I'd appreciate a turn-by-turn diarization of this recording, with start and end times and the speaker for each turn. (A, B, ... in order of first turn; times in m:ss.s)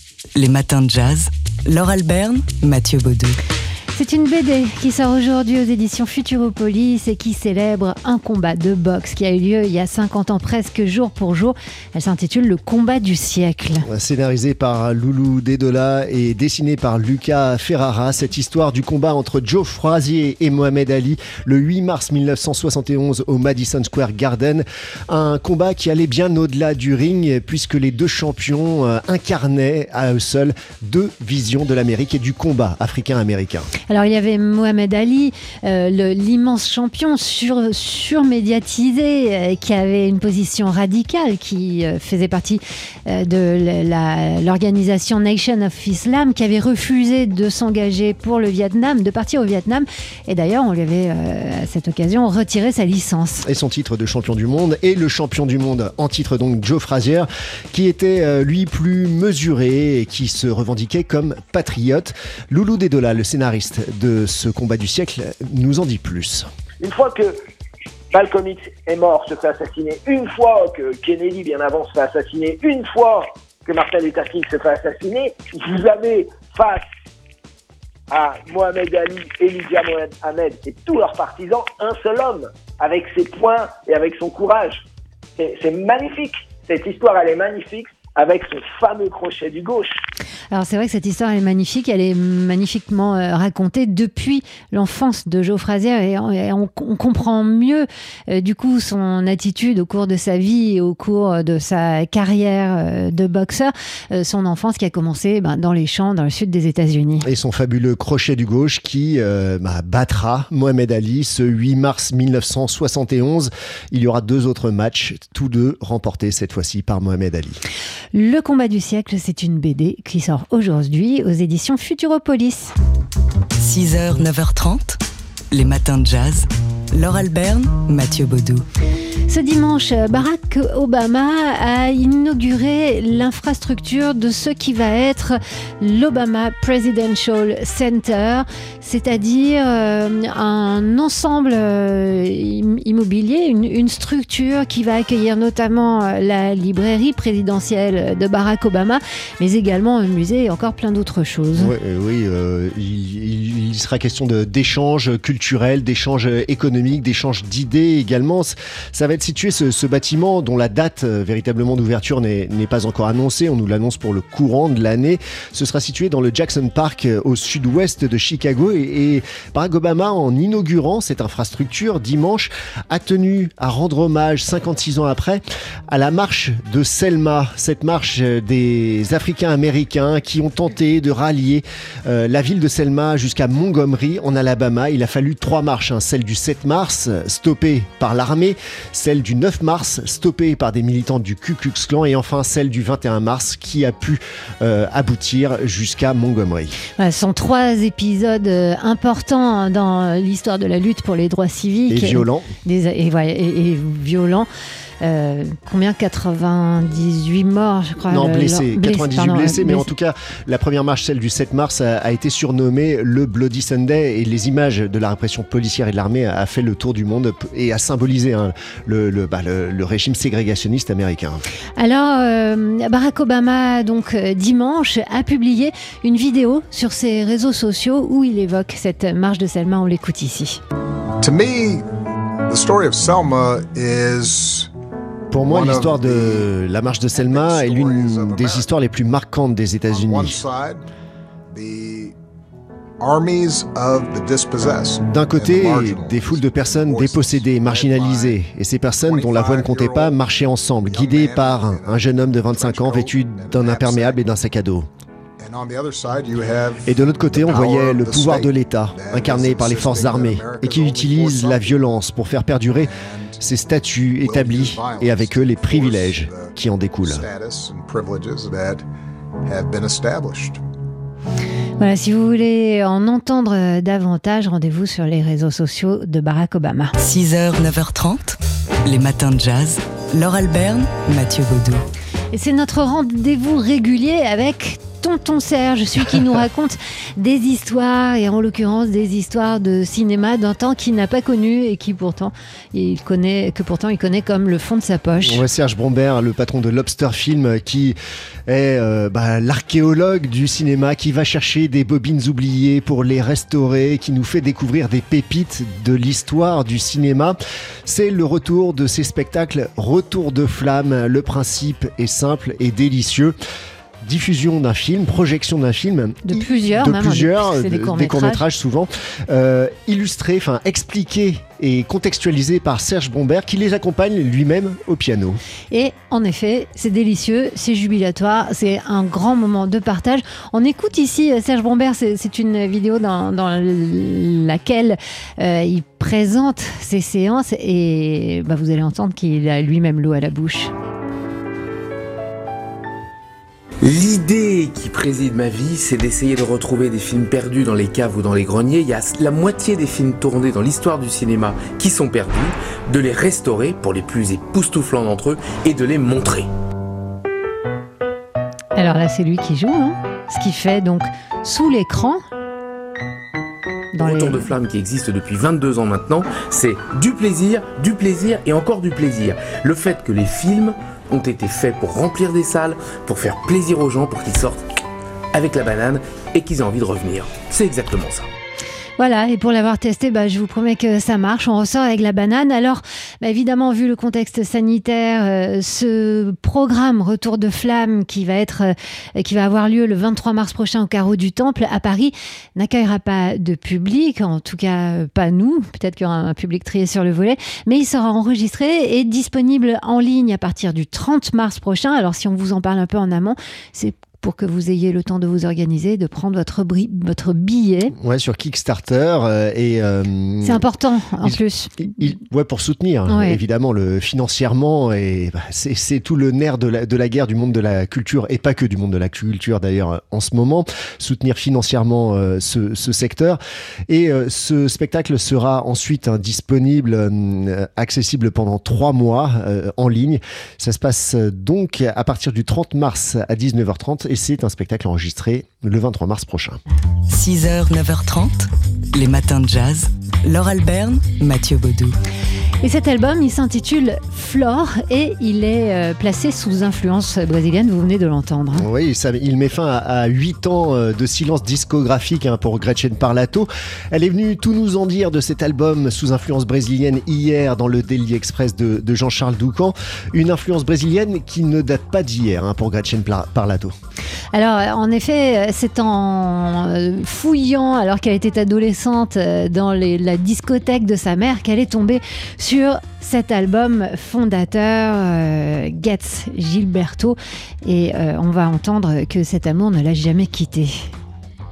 0:00.4-0:03.4 A
0:04.0-0:13.9 B
0:13.9-0:33.7 C
0:33.9-0:53.4 B
0:53.4-1:06.5 C
1:06.8-1:07.4 D
1:08.1-1:16.9 D
1:18.1-1:24.8 D
1:25.4-1:30.0 D
1:30.5-1:47.3 B
1:47.2-1:57.6 C
1:58.1-2:02.7 B
2:03.6-2:05.0 A
2:05.5-2:08.7 A
2:09.3-2:31.7 B
2:31.6-3:16.8 C
3:17.0-3:24.5 B
3:21.9-3:22.5 C
3:25.0-3:29.9 B
3:28.1-3:41.4 C
3:41.8-3:50.6 B
3:51.2-3:51.8 E
3:52.5-3:54.7 E
3:55.3-4:00.4 C
3:55.4-3:56.5 E
3:57.1-3:58.7 E
3:59.9-4:00.8 E
4:01.5-4:02.2 E
4:03.0-4:08.4 E
4:05.0-4:14.9 C
4:09.0-4:10.2 E
4:10.8-4:14.2 E
4:15.4-4:21.9 E
4:16.9-4:27.2 C
4:22.8-4:23.4 E
4:24.2-4:28.8 E
4:29.4-4:30.6 E
4:31.8-4:37.0 B
4:37.0-4:41.8 A
4:42.3-4:55.4 B
4:55.2-5:13.3 C
5:14.0-5:25.4 C
5:16.3-5:18.4 B
5:25.7-5:40.7 B
5:43.8-5:56.5 F
5:58.8-6:02.2 B
6:03.9-6:04.5 B
6:04.0-6:14.6 F
6:15.3-6:18.3 F
6:19.0-6:48.0 B
6:48.0-6:50.6 C
6:50.4-6:51.9 B
6:51.2-7:16.6 C
6:53.1-6:53.4 B
7:17.1-7:22.0 A
7:22.6-7:28.6 B
7:28.6-7:43.7 C
7:44.3-8:00.8 B